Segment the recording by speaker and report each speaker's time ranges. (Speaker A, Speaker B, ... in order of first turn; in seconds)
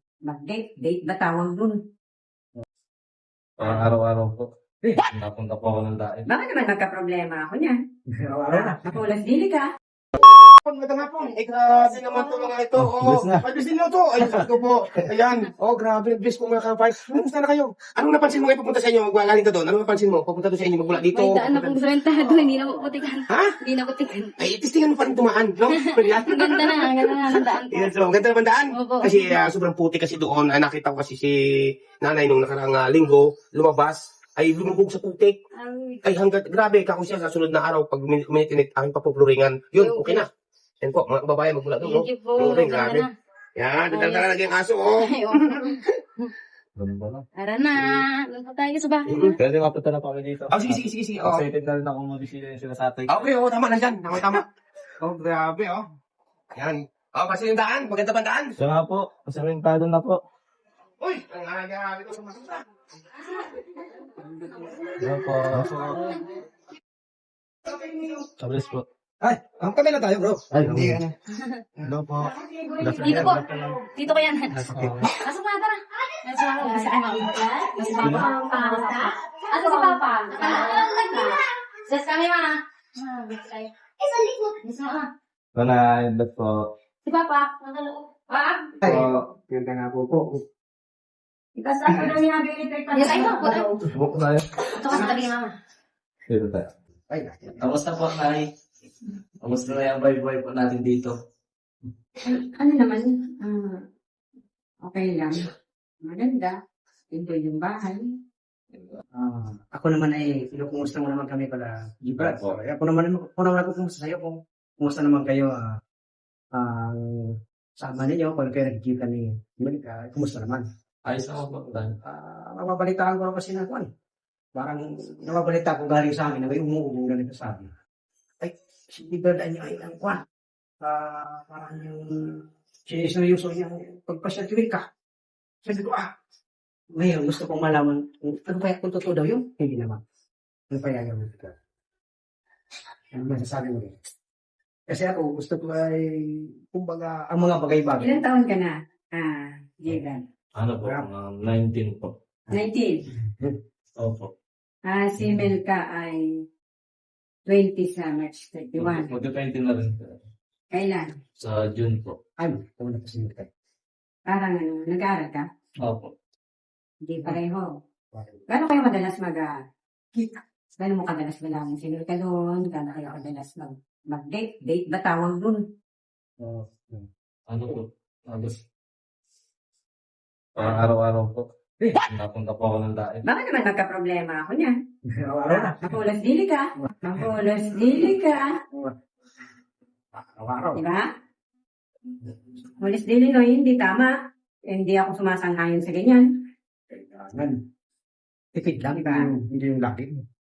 Speaker A: 0.3-1.8, 6.3-7.8, 8.5-9.7, 72.3-73.8, 76.6-81.4, 91.6-93.8, 94.9-95.2, 102.2-103.8, 104.8-105.5, 106.0-106.6, 107.1-108.1, 148.0-150.2, 152.5-153.1, 154.9-156.3, 157.5-159.1, 160.7-161.1, 164.3-165.5, 167.1-167.7, 168.5-169.5, 170.1-175.6, 183.2-184.8, 185.5-188.6, 190.8-191.1, 192.8-194.1, 194.7-196.3, 199.0-199.3
Speaker B: 3.6-4.5, 5.0-6.3, 46.8-48.0, 49.4-53.3, 58.6-60.2, 65.0-66.2, 68.4-68.8, 70.5-71.0, 72.8-73.2, 74.6-75.1, 78.0-78.3, 85.5-86.7, 88.8-89.2, 93.9-94.5, 96.3-96.7, 97.5-98.5, 99.4-101.1, 108.7-109.0, 112.2-112.5, 121.0-122.0, 150.6-152.1, 154.0-154.3, 158.8-160.2, 161.4-162.2, 165.8-166.1, 177.5-178.6, 180.6-183.2
Speaker C: 8.1-8.9, 12.8-13.4, 70.7-71.0, 88.8-90.4, 97.1-97.6, 109.1-115.8, 116.5-120.7, 122.0-123.9, 124.5-127.7, 128.4-130.2, 130.8-134.9, 135.6-136.1, 136.9-140.0, 140.7-141.6, 143.1-143.9, 144.9-148.2, 162.4-163.5, 168.1-168.4, 176.4-177.1, 185.1-186.0, 186.8-187.3, 190.1-190.8, 196.9-197.6, 198.5-200.2
Speaker D: 10.4-23.6, 24.4-35.4, 36.0-40.3, 40.8-45.8, 49.1-49.4, 50.5-51.4, 53.1-54.5, 55.0-55.9, 56.5-58.6, 61.0-62.6, 67.7-68.2, 69.4-71.0, 71.9-72.3, 73.0-73.4
Speaker E: 20.9-24.4, 25.7-28.0, 28.7-29.5, 35.6-36.0, 39.8-40.2, 41.8-43.1, 43.9-44.3, 45.0-45.8, 47.4-49.3, 73.0-85.1, 87.0-88.8, 92.9-93.7, 94.7-95.5